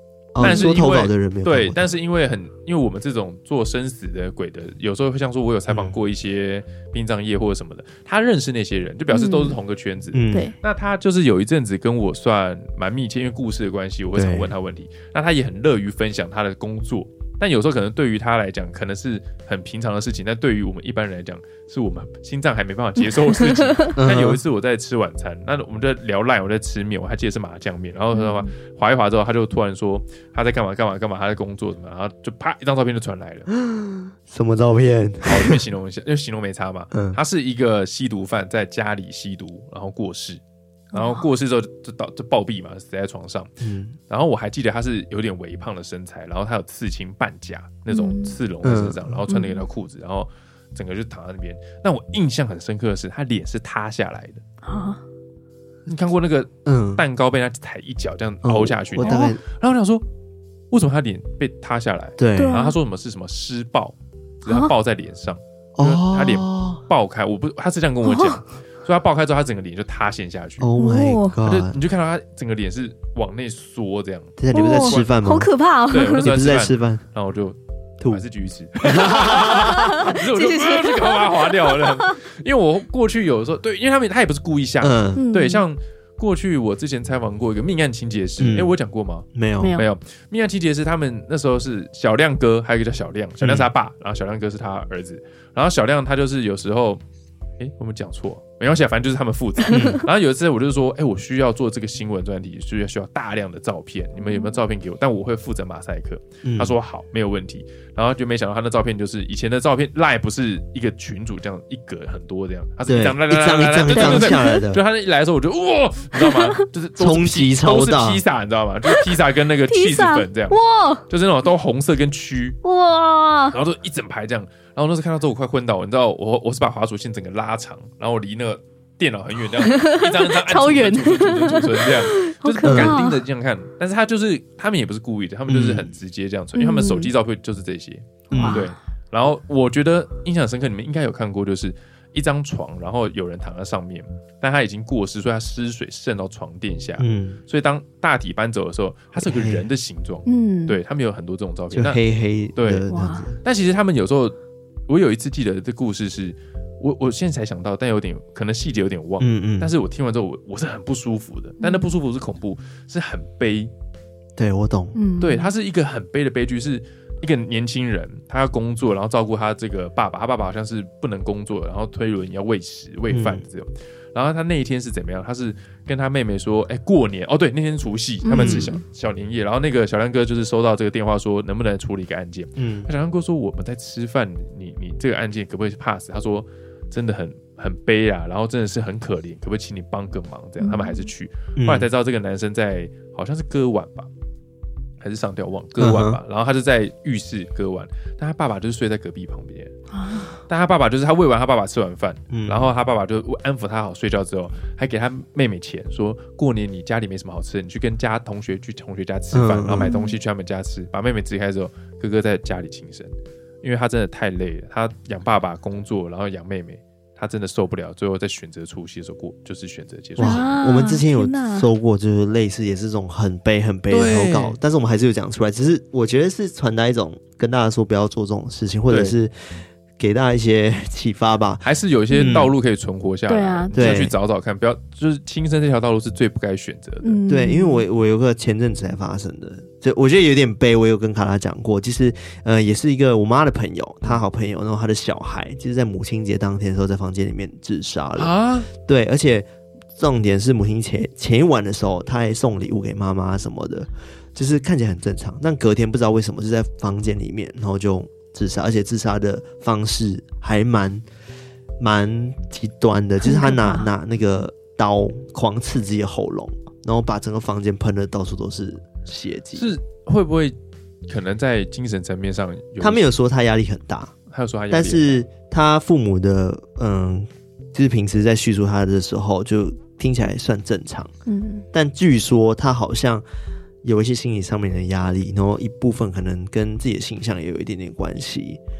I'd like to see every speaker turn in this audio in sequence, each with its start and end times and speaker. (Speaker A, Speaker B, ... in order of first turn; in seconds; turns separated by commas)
Speaker A: 0.3-1.9, Speaker B: 0.4-33.5, Speaker C: 0.4-0.7, Speaker A: 5.7-6.0, Speaker C: 9.1-9.6, Speaker A: 10.1-10.5, Speaker A: 14.1-14.5, Speaker C: 23.4-23.9, Speaker A: 23.9-24.4, Speaker A: 33.5-35.6, Speaker B: 35.2-43.5, Speaker A: 36.9-37.2, Speaker C: 40.9-41.2, Speaker A: 43.6-44.0, Speaker B: 44.1-54.4, Speaker C: 47.9-48.4, Speaker A: 48.6-49.2, Speaker C: 49.3-49.6, Speaker C: 54.6-55.0, Speaker B: 55.9-60.0, Speaker A: 56.6-57.0, Speaker A: 58.4-59.4, Speaker C: 59.0-59.3, Speaker B: 60.7-70.7, Speaker A: 62.2-62.6, Speaker C: 62.4-62.8, Speaker C: 64.5-64.7, Speaker A: 65.8-66.8, Speaker C: 68.0-68.4, Speaker A: 70.6-71.8, Speaker C: 70.8-71.4, Speaker B: 71.4-75.1, Speaker A: 74.4-75.5, Speaker C: 74.5-76.3, Speaker B: 75.9-97.0, Speaker A: 76.2-77.0, Speaker A: 78.8-80.0, Speaker C: 79.5-82.2, Speaker A: 84.8-85.2, Speaker C: 85.1-85.6, Speaker A: 88.4-88.7, Speaker A: 89.3-89.8, Speaker C: 89.6-89.8, Speaker A: 93.4-93.7, Speaker B: 97.6-122.6, Speaker A: 99.7-100.0, Speaker A: 106.4-106.7, Speaker A: 112.9-114.8, Speaker C: 113.9-114.6, Speaker C: 116.2-116.5, Speaker A: 117.0-118.2, Speaker C: 119.7-121.0, Speaker C: 122.6-123.6, Speaker B: 123.5-152.0, Speaker C: 129.6-133.2, Speaker A: 132.6-133.0, Speaker A: 135.5-135.9, Speaker C: 136.5-137.1, Speaker A: 138.3-138.7, Speaker C: 138.3-138.7, Speaker A: 147.0-147.4, Speaker A: 149.1-149.7, Speaker C: 150.2-150.8, Speaker A: 151.7-153.4, Speaker B: 152.6-152.8, Speaker C: 152.9-153.3, Speaker B: 153.4-154.3, Speaker B: 154.9-163.7, Speaker A: 159.2-159.7, Speaker C: 161.6-161.9, Speaker A: 164.4-164.9, Speaker C: 164.9-165.5, Speaker B: 165.2-194.1, Speaker A: 173.1-173.4, Speaker C: 178.2-178.8, Speaker A: 178.3-178.7, Speaker A: 182.6-182.9, Speaker C: 190.6-191.1, Speaker A: 191.6-191.9, Speaker B: 195.0-199.7, Speaker A: 195.8-196.2, Speaker C: 199.9-200.4, Speaker B: 200.5-220.6, Speaker A: 202.3-202.7, Speaker A: 209.3-209.9, Speaker C: 209.8-210.2, Speaker A: 220.2-229.3, Speaker C: 220.2-221.7, Speaker B: 223.9-224.6, Speaker B: 228.9-229.2, Speaker A: 230.0-231.6, Speaker B: 231.6-237.2, Speaker C: 232.1-232.5, Speaker A: 232.1-232.5, Speaker C: 233.3-234.0, Speaker A: 233.7-234.1, Speaker C: 237.0-237.8, Speaker A: 237.3-261.0, Speaker B: 248.2-248.7, Speaker A: 261.8-269.7, Speaker C: 263.2-263.9, Speaker B: 269.5-270.6, Speaker B: 271.1-273.1, Speaker A: 272.8-274.1, Speaker B: 274.3-275.2, Speaker A: 274.7-281.1, Speaker C: 281.2-281.6, Speaker A: 281.7-283.2, Speaker A: 283.8-288.6